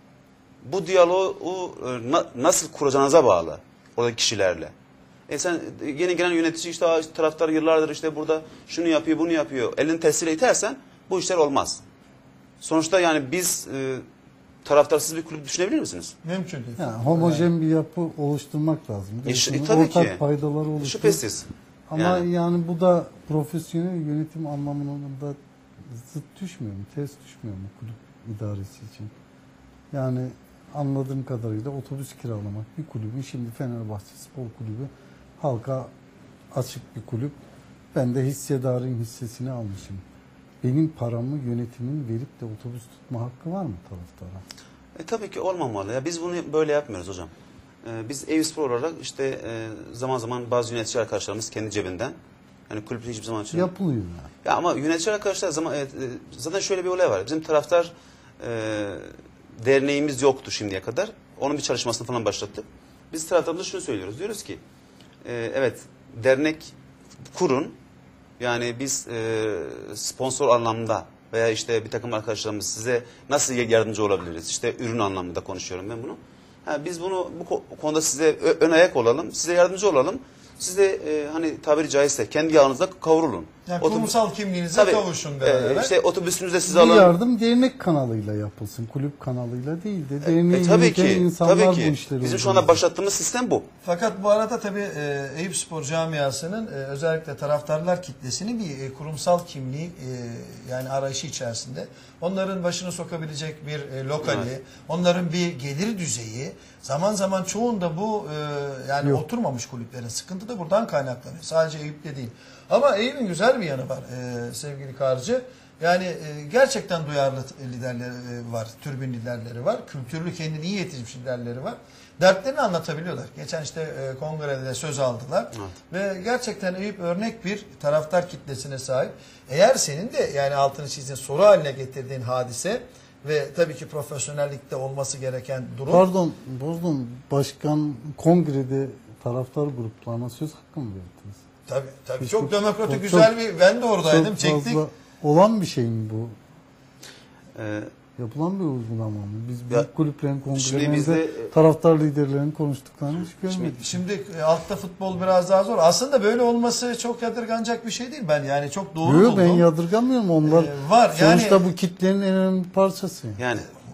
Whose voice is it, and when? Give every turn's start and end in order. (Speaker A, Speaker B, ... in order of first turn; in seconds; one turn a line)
Speaker A: 0.6-4.7
Speaker A: 5.3-11.8
Speaker A: 12.6-14.0
Speaker A: 14.6-16.1
Speaker B: 16.2-17.5
Speaker C: 16.8-21.2
Speaker A: 19.2-20.2
Speaker A: 20.8-22.3
Speaker C: 21.9-25.4
Speaker C: 25.9-29.1
Speaker C: 29.9-35.9
Speaker C: 36.5-37.4
Speaker C: 37.9-40.0
Speaker C: 40.6-44.4
Speaker A: 45.0-47.3
Speaker A: 47.8-52.2
Speaker A: 52.7-53.7
Speaker C: 53.5-54.3
Speaker A: 54.4-64.6
Speaker A: 65.2-66.7
Speaker A: 67.3-67.8
Speaker A: 68.4-87.2
Speaker B: 83.7-85.9
Speaker C: 86.7-92.8
Speaker A: 90.2-93.7
Speaker B: 93.8-136.0
Speaker A: 104.2-104.5
Speaker C: 135.9-141.4
Speaker B: 141.7-144.8
Speaker C: 142.2-143.3
Speaker C: 144.0-146.4
Speaker A: 147.5-147.9
Speaker C: 148.2-153.9
Speaker A: 150.5-151.5
Speaker A: 153.1-153.8
Speaker B: 153.8-159.7
Speaker C: 159.0-163.4
Speaker B: 160.4-161.6
Speaker A: 163.4-163.7